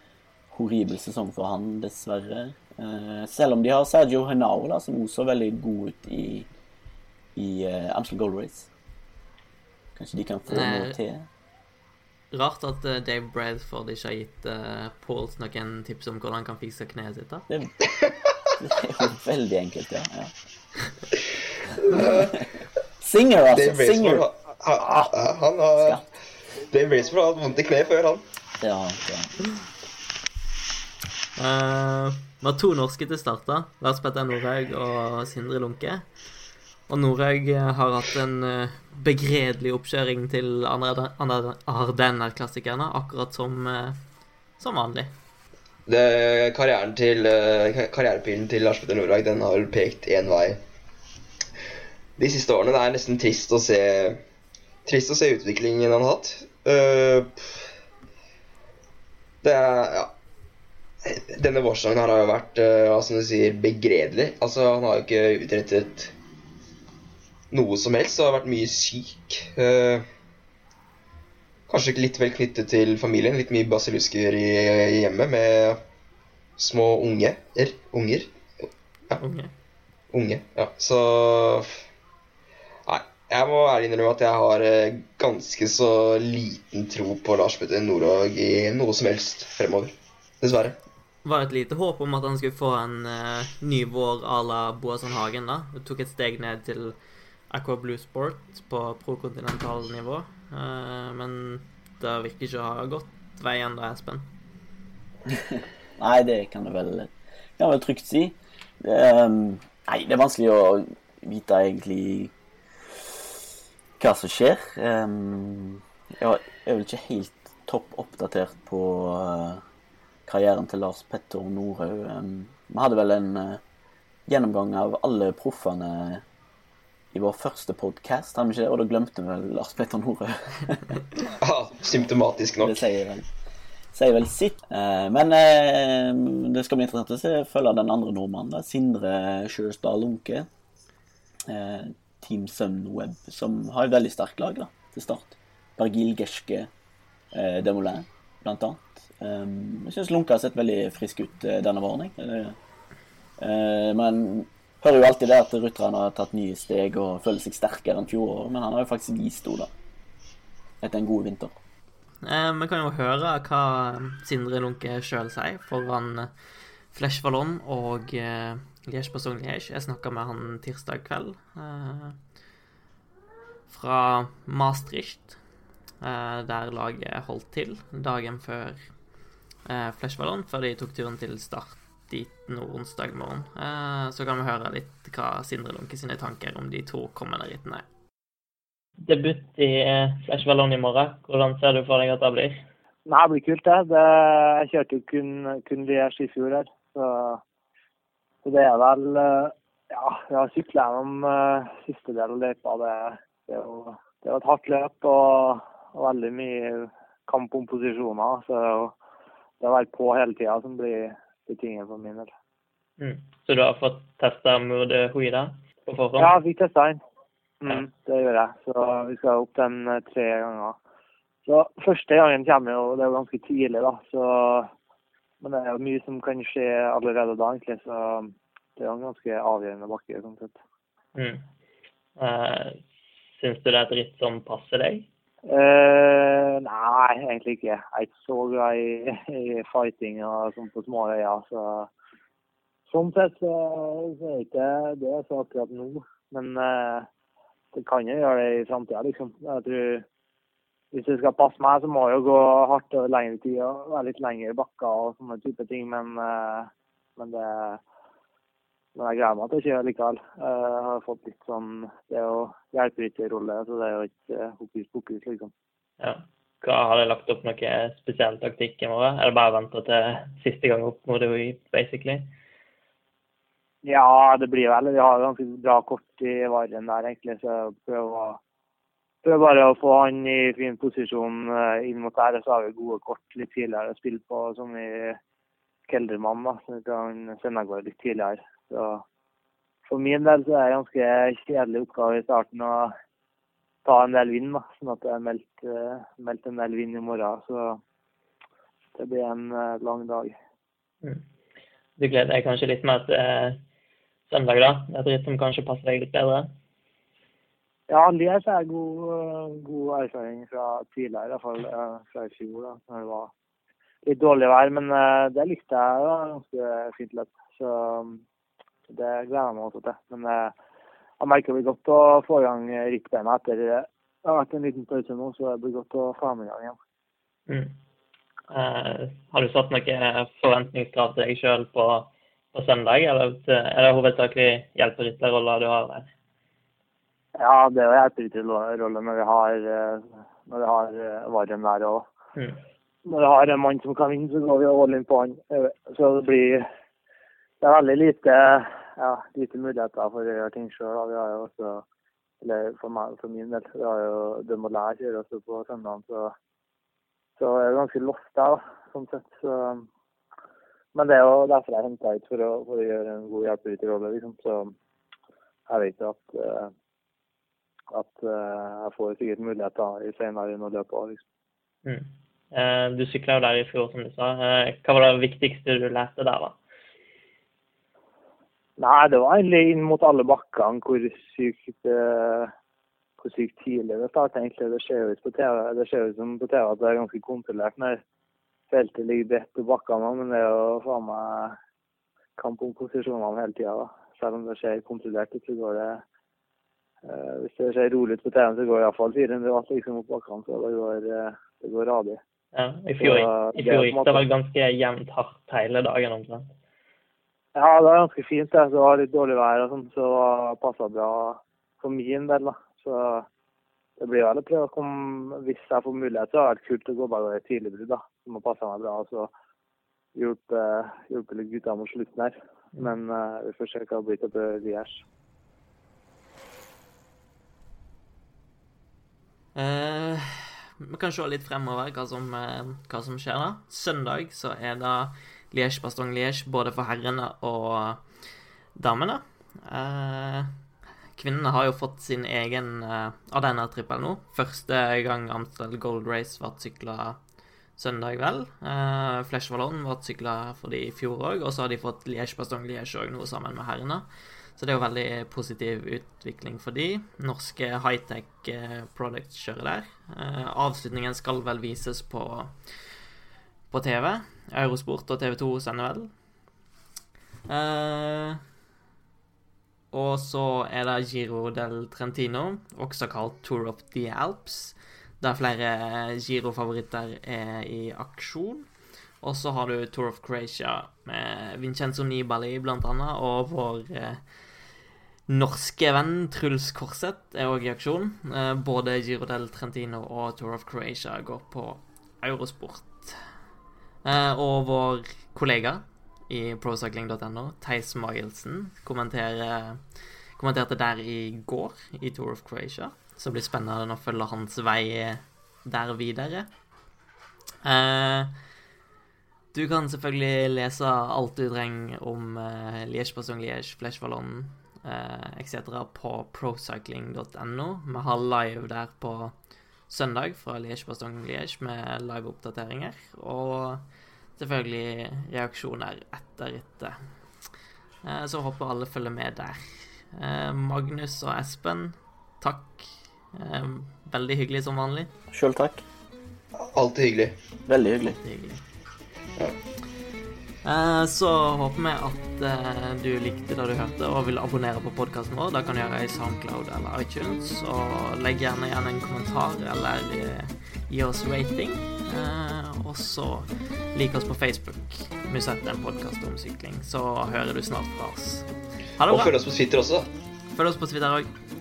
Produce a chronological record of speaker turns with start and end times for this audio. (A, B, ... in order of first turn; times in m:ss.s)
0:00.5-0:06.5 A
0:07.4-0:08.7 A
0:10.0-0:11.3 A
0:10.5-0:11.0 B
0:12.3-0:17.5 B
0:17.5-0:17.9 A
0:17.9-0:18.2 C
0:18.5-0:20.3 A
0:21.8-0:22.4 C
0:22.0-0:22.4 A
0:23.0-0:24.3 A
0:23.5-0:26.0 C
0:25.8-0:26.0 A
0:26.7-0:28.2 C
0:28.6-0:29.4 A
0:31.4-0:36.0 B
0:36.9-0:44.0 B
0:44.6-0:45.1 B
0:45.9-0:50.6 C
0:52.2-0:54.2 C
0:54.9-0:57.6 C
0:59.4-1:00.1 C
1:01.0-1:06.1 C
1:07.5-1:10.1 C
1:11.7-1:15.8 C
1:16.6-1:19.2 C
1:19.2-1:19.5 B
1:20.1-1:21.8 C
1:22.9-1:30.8 C
1:31.2-1:37.0 B
1:37.5-1:44.3 B
1:45.3-1:52.3 A
1:54.0-1:59.6 A
2:00.3-2:03.6 A
2:04.3-2:06.2 A
2:07.1-2:11.0 A
2:11.4-2:12.8 C
2:12.6-2:13.3 A
2:13.9-2:20.5 A
2:21.5-2:26.7 A
2:27.3-2:32.6 A
2:33.4-2:39.7 A
2:40.8-2:41.5 A
2:42.2-2:46.3 B
2:46.9-2:52.2 B
2:53.7-2:55.4 B
2:56.0-2:58.8 B
2:59.7-3:07.8 B
3:09.0-3:12.6 B
3:13.1-3:17.4 D
3:18.4-3:29.0 D
3:29.6-3:32.3 D
3:33.0-3:36.3 B
3:36.2-3:37.0 D
3:37.6-3:40.8 D
3:41.5-3:44.7 D
3:45.4-3:50.6 D
3:51.2-3:51.4 B
3:52.2-3:52.8 B
3:53.4-3:55.1 B
3:55.4-4:01.9 D
4:02.9-4:07.1 D
4:07.7-4:10.1 D
4:10.9-4:17.8 D
4:19.0-4:25.5 D
4:26.0-4:32.3 B
4:33.8-4:38.4 D
4:39.2-4:45.2 D
4:45.9-4:49.0 D
4:49.9-4:52.9 D
4:53.8-4:57.8 D
4:59.0-5:00.4 D
5:02.0-5:03.6 B
5:04.3-5:06.5 B
5:07.9-5:13.3 D
5:14.0-5:18.2 D
5:18.9-5:20.6 D
5:21.2-5:26.8 D
5:27.5-5:27.8 B
5:28.5-5:36.1 B
5:37.4-5:42.1 D
5:43.0-5:46.7 D
5:47.6-5:51.8 D
5:52.4-5:56.4 D
5:57.4-5:59.9 D
6:01.0-6:04.8 D
6:05.7-6:06.7 D
6:07.9-6:11.2 D
6:11.8-6:16.6 B
6:18.8-6:22.5 D
6:23.2-6:28.0 D
6:28.7-6:31.6 D
6:32.4-6:36.0 D
6:37.0-6:42.2 D
6:42.5-6:46.5 B
6:43.0-6:44.2 D
6:47.6-6:53.3 D
6:54.0-6:59.3 D
7:00.2-7:05.0 D
7:09.6-7:18.0 B
7:18.8-7:20.5 B
7:21.2-7:27.2 B
7:27.8-7:34.1 B
7:34.6-7:42.5 B
7:43.7-7:46.1 B
7:47.5-7:48.4 B
7:49.9-7:58.7 B
7:59.2-8:04.2 B
8:05.3-8:13.2 B
8:14.0-8:19.8 B
8:20.4-8:26.5 B
8:27.6-8:28.3 B
8:29.5-8:39.3 B
8:39.9-8:43.8 B
8:44.4-8:47.0 B
8:48.0-8:55.1 B
8:55.3-8:55.8 A
8:56.6-8:57.4 C
8:57.7-8:58.2 A
8:58.2-8:58.6 B
9:00.6-9:19.4 B
9:19.1-9:20.1 C
9:20.6-9:21.3 B